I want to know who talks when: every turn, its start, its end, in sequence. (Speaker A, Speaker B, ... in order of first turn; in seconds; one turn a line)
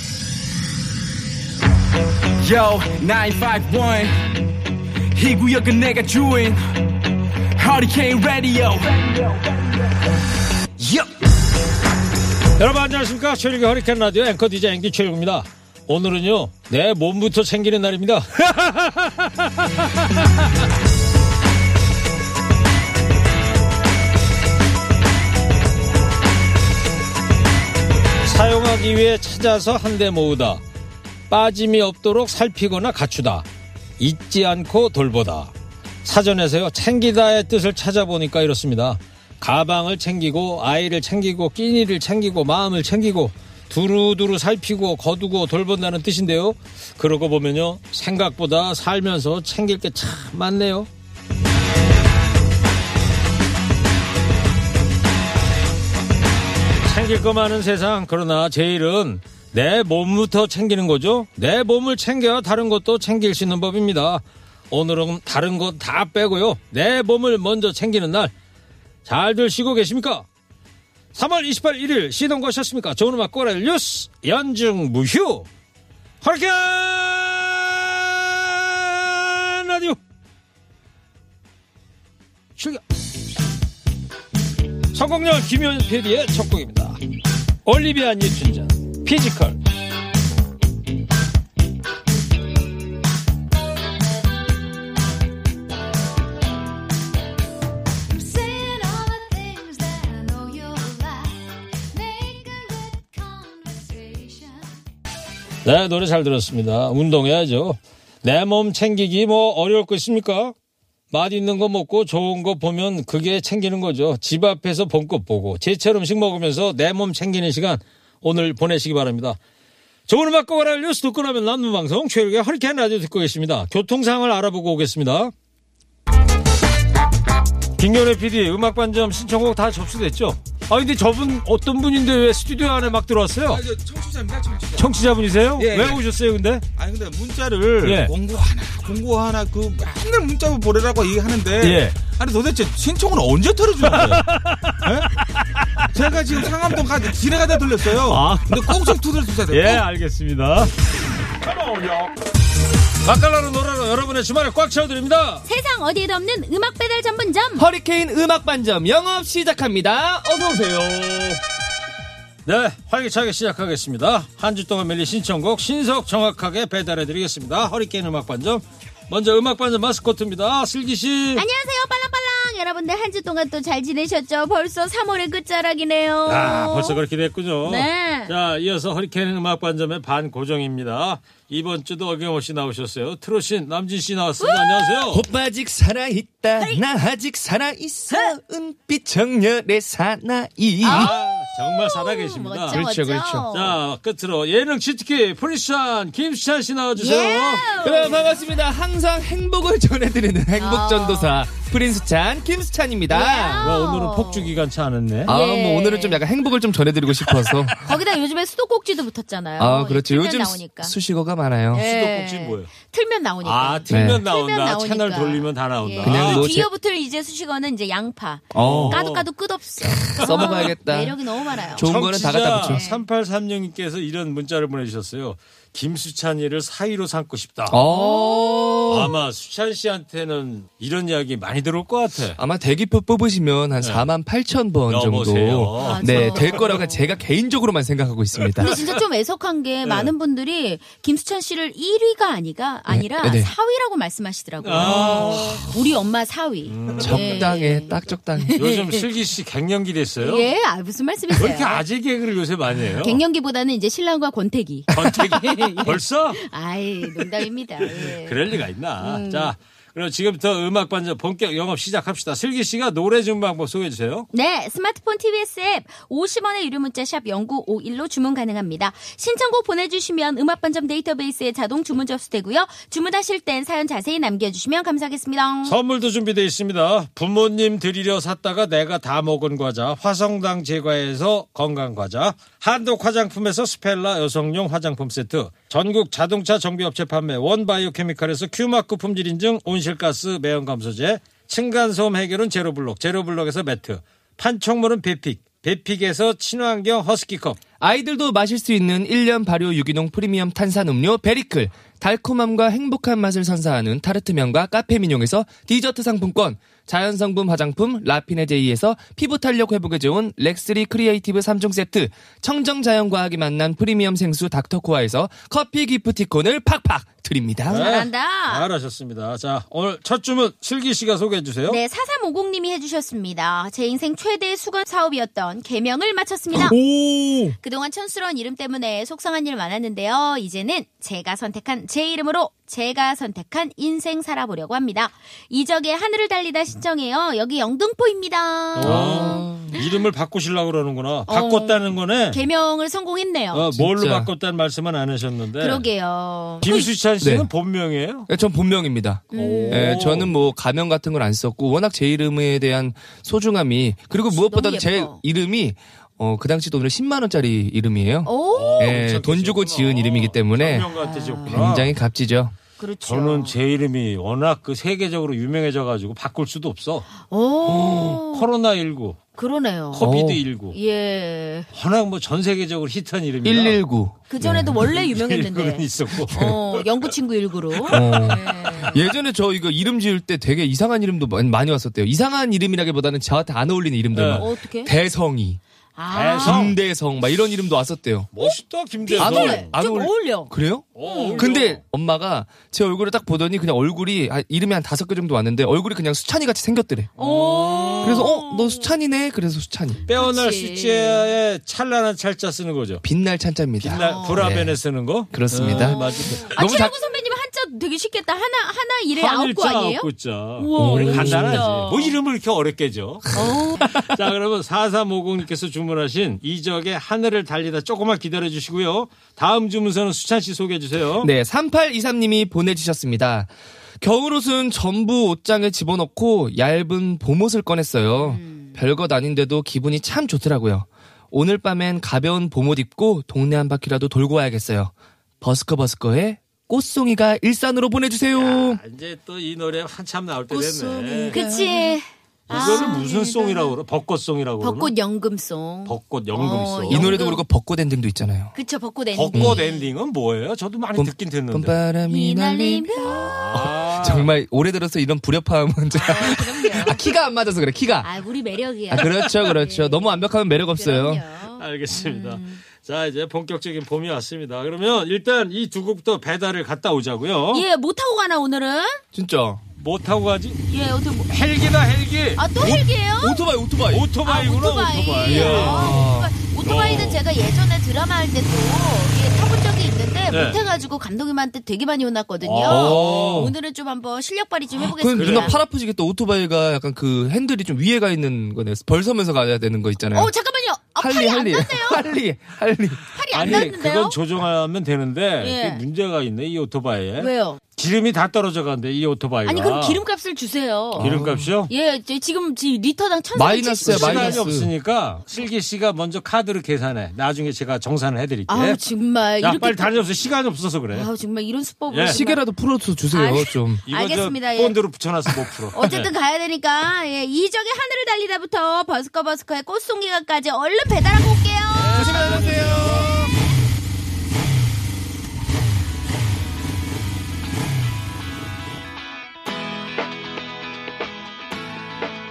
Speaker A: 2.4-4.2
Speaker A: 5.1-6.9
Speaker A: 7.5-9.6
Speaker A: 10.8-11.1
Speaker B: 12.6-19.9
Speaker B: 28.2-30.6
Speaker B: 31.3-33.5
Speaker B: 34.0-35.5
Speaker B: 36.0-50.9
Speaker B: 56.8-68.3
Speaker B: 69.0-70.2
Speaker B: 71.1-75.5
Speaker B: 76.2-80.0
Speaker B: 82.6-82.8
Speaker B: 84.9-87.0
Speaker B: 87.6-89.6
Speaker C: 98.1-104.6
Speaker B: 105.6-110.5
Speaker B: 111.1-119.4
Speaker B: 120.1-125.3
Speaker B: 127.8-133.6
Speaker D: 133.5-136.0
Speaker B: 134.8-136.6
Speaker D: 136.8-144.2
Speaker B: 137.8-138.1
Speaker B: 141.6-142.0
Speaker B: 143.8-145.9
Speaker D: 145.9-149.8
Speaker B: 147.9-150.7
Speaker B: 153.0-155.4
Speaker E: 155.4-157.7
Speaker F: 157.5-161.4
Speaker B: 162.4-171.4
Speaker E: 171.3-177.0
Speaker B: 176.2-185.2
Speaker E: 177.6-178.3
Speaker E: 184.4-185.1
Speaker F: 185.1-191.1
Speaker E: 186.6-186.8
Speaker E: 188.1-188.3
Speaker B: 190.8-192.8
Speaker E: 190.9-193.8
Speaker F: 192.7-193.5
Speaker B: 193.5-197.8
Speaker E: 196.9-198.4
Speaker F: 197.8-203.8
Speaker E: 200.6-201.5
Speaker E: 203.1-204.5
Speaker B: 203.6-205.3
Speaker E: 205.3-206.2
Speaker F: 205.3-207.9
Speaker E: 207.8-210.9
Speaker F: 209.6-211.8
Speaker B: 211.7-212.7
Speaker E: 211.7-223.0
Speaker B: 213.4-216.6
Speaker F: 213.9-214.2
Speaker F: 216.0-216.7
Speaker F: 218.5-219.0
Speaker B: 218.5-219.3
Speaker F: 219.8-221.2
Speaker B: 220.2-220.7
Speaker F: 221.7-222.8
Speaker B: 221.8-227.8
Speaker F: 227.7-229.1
Speaker E: 227.9-229.1
Speaker B: 228.9-232.4
Speaker F: 232.4-238.7
Speaker B: 233.8-234.1
Speaker B: 234.9-236.7
Speaker E: 235.8-237.0
Speaker B: 238.4-239.0
Speaker E: 238.6-249.1
Speaker B: 239.8-240.1
Speaker F: 242.9-243.5
Speaker B: 244.6-245.6
Speaker F: 244.8-245.8
Speaker B: 246.7-247.5
Speaker F: 247.0-248.5
Speaker B: 248.6-250.5
Speaker E: 250.2-251.8
Speaker B: 251.3-253.2
Speaker E: 252.9-258.4
Speaker B: 254.9-256.4
Speaker B: 257.8-264.3
Speaker E: 259.0-259.5
Speaker E: 264.3-275.8
Speaker B: 275.6-297.6
Speaker F: 297.8-317.9
Speaker B: 317.7-321.8
Speaker E: 317.7-318.7
Speaker E: 321.6-326.8
Speaker F: 326.5-327.6
Speaker E: 327.6-339.9
Speaker B: 338.7-342.4
Speaker F: 338.8-339.7
Speaker E: 341.3-343.7
Speaker B: 343.5-345.9
Speaker F: 343.8-344.3
Speaker E: 345.6-346.9
Speaker B: 346.6-348.3
Speaker F: 347.2-347.5
Speaker F: 348.3-360.9
Speaker E: 349.3-350.0
Speaker B: 349.3-350.3
Speaker E: 354.3-355.2
Speaker E: 358.2-358.9
Speaker B: 358.5-361.9
Speaker E: 360.9-361.7
Speaker F: 361.4-362.5
Speaker E: 362.8-363.6
Speaker B: 363.0-367.1
Speaker E: 367.2-368.5
Speaker F: 367.6-368.2
Speaker B: 368.3-369.2
Speaker E: 369.3-370.1
Speaker B: 369.9-370.8
Speaker F: 370.0-370.4
Speaker E: 370.7-371.7
Speaker B: 371.7-373.8
Speaker F: 373.4-374.8
Speaker E: 374.3-379.0
Speaker B: 374.7-377.1
Speaker B: 377.8-378.9
Speaker F: 377.9-385.6
Speaker B: 384.1-384.4
Speaker E: 384.3-384.9
Speaker E: 385.9-386.7
Speaker B: 386.1-386.8
Speaker F: 386.4-388.3
Speaker B: 388.3-389.7
Speaker E: 388.4-391.5
Speaker F: 389.2-397.1
Speaker B: 390.9-391.8
Speaker B: 397.2-398.3
Speaker E: 397.2-398.9
Speaker F: 398.0-400.0
Speaker B: 400.1-403.0
Speaker E: 400.1-401.3
Speaker F: 403.0-406.9
Speaker B: 403.8-406.5
Speaker E: 403.9-404.5
Speaker E: 405.6-412.2
Speaker B: 409.1-421.3
Speaker F: 410.8-411.7
Speaker E: 413.3-413.9
Speaker F: 413.3-414.1
Speaker F: 421.2-438.8
Speaker E: 428.2-428.8
Speaker B: 438.3-441.4
Speaker F: 440.5-442.0
Speaker E: 441.3-443.8
Speaker B: 442.5-444.9
Speaker F: 442.5-443.0
Speaker E: 444.6-447.4
Speaker B: 445.8-447.1
Speaker F: 446.9-448.5
Speaker E: 448.5-449.9
Speaker B: 449.1-451.8
Speaker F: 449.3-449.6
Speaker F: 450.9-458.1
Speaker E: 452.1-453.6
Speaker B: 453.1-454.3
Speaker E: 455.9-457.0
Speaker E: 458.0-462.6
Speaker F: 458.9-461.2
Speaker B: 461.5-467.6
Speaker E: 467.5-469.0
Speaker F: 469.1-469.6
Speaker B: 469.8-470.7
Speaker E: 470.7-471.3
Speaker B: 471.3-472.5
Speaker E: 472.4-473.4
Speaker F: 472.6-474.1
Speaker B: 473.9-476.0
Speaker E: 474.2-485.6
Speaker F: 475.2-476.3
Speaker B: 476.6-477.3
Speaker B: 480.3-480.6
Speaker B: 482.4-483.5
Speaker F: 482.6-483.5
Speaker F: 484.8-490.3
Speaker B: 485.1-485.6
Speaker E: 490.1-492.1
Speaker F: 491.0-493.7
Speaker E: 493.1-494.2
Speaker B: 493.3-500.0
Speaker E: 495.4-495.8
Speaker E: 497.2-497.6
Speaker E: 499.4-501.1
Speaker F: 500.9-501.5
Speaker B: 501.0-501.7
Speaker E: 501.7-504.4
Speaker F: 503.3-504.7
Speaker B: 503.8-508.8
Speaker E: 508.5-510.0
Speaker B: 509.4-511.1
Speaker E: 510.9-512.4
Speaker B: 511.9-512.2
Speaker F: 512.1-513.8
Speaker E: 513.1-514.8
Speaker B: 513.9-516.1
Speaker E: 515.7-522.2
Speaker B: 521.7-523.3
Speaker F: 521.9-523.3